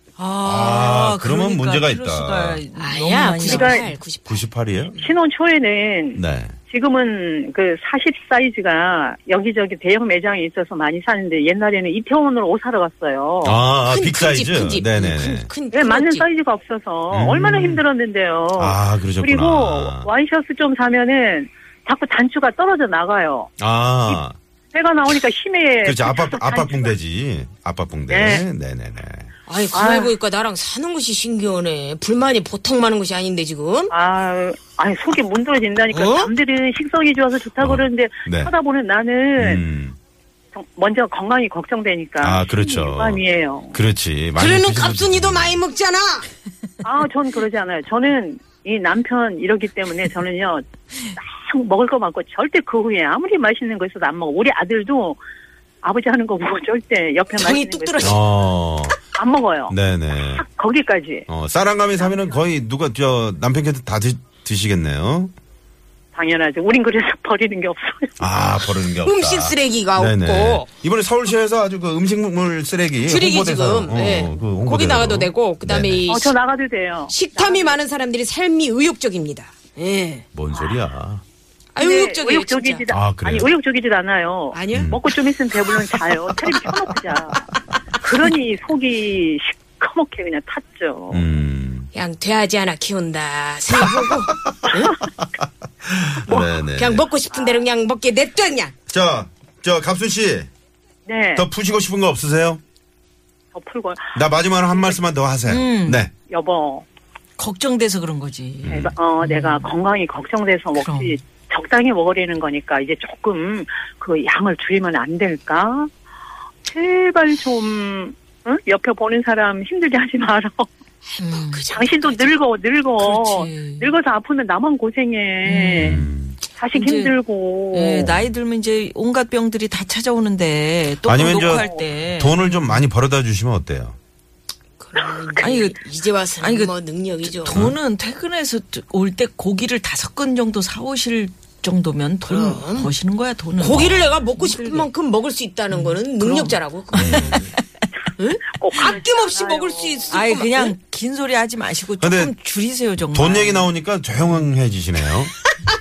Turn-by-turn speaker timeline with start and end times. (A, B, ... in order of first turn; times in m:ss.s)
0:00.2-0:04.0 A
0:00.4-0:02.6 B
0:02.8-0:05.1 C
0:03.4-0:03.8 D
0:04.3-0:05.0 B
0:05.0-0:13.6 D
0:06.2-0:06.6 B
0:13.4-0:15.5 B
0:13.9-0:16.3 C
0:15.7-0:23.5 D
0:17.1-0:17.8 B
0:18.6-0:20.1 B
0:23.6-0:24.4 B
0:24.7-0:27.0 D
0:25.8-0:29.3 B
0:28.1-0:28.4 D
0:29.5-0:33.9 C
0:29.7-0:30.2 D
0:33.9-0:39.6 D
0:35.9-0:36.3 C
0:37.6-0:38.5 B
0:39.4-0:40.0 B
0:40.5-0:43.8 D
0:42.2-0:45.6 B
0:44.4-0:46.3 C
0:46.8-0:55.2 D
0:55.8-0:58.2 D
0:57.4-0:58.2 C
0:58.0-0:59.0 B
0:59.1-1:01.3 D
0:59.7-1:00.4 B
1:01.3-1:05.3 B
1:02.0-1:02.4 D
1:06.1-1:08.1 D
1:08.2-1:16.0 B
1:09.0-1:10.7 C
1:13.0-1:16.3 C
1:16.1-1:17.8 D
1:17.1-1:20.2 C
1:20.3-1:21.2 B
1:21.7-1:22.8 C
1:21.8-1:31.2 D
1:22.9-1:23.5 B
1:24.5-1:24.9 C
1:24.7-1:25.0 B
1:31.1-1:31.9 B
1:31.9-1:35.0 C
1:33.9-1:37.1 B
1:36.2-1:38.7 C
1:37.3-1:37.6 D
1:38.9-1:40.5 B
1:41.1-1:41.5 D
1:41.4-1:42.6 B
1:43.5-1:45.0 D
1:44.1-1:46.1 B
1:45.4-1:46.0 A
1:46.3-1:46.8 D
1:47.4-1:49.7 A
1:48.6-1:48.9 B
1:48.7-1:55.9 D
1:50.8-1:51.2 A
1:56.7-2:00.7 D
2:01.1-2:02.4 C
2:01.3-2:01.6 A
2:01.7-2:06.0 D
2:03.0-2:03.9 A
2:05.4-2:06.1 A
2:05.8-2:06.4 B
2:06.6-2:08.2 D
2:06.7-2:07.1 A
2:07.7-2:12.8 A
2:11.0-2:14.0 B
2:11.3-2:11.9 D
2:14.8-2:17.6 C
2:15.4-2:15.8 A
2:16.4-2:16.7 A
2:17.3-2:24.9 A
2:17.5-2:17.8 B
2:22.2-2:22.9 C
2:23.6-2:27.5 C
2:25.7-2:27.6 A
2:27.0-2:27.4 B
2:28.2-2:30.8 C
2:28.5-2:30.2 D
2:30.1-2:33.7 A
2:32.0-2:32.3 B
2:33.1-2:35.3 B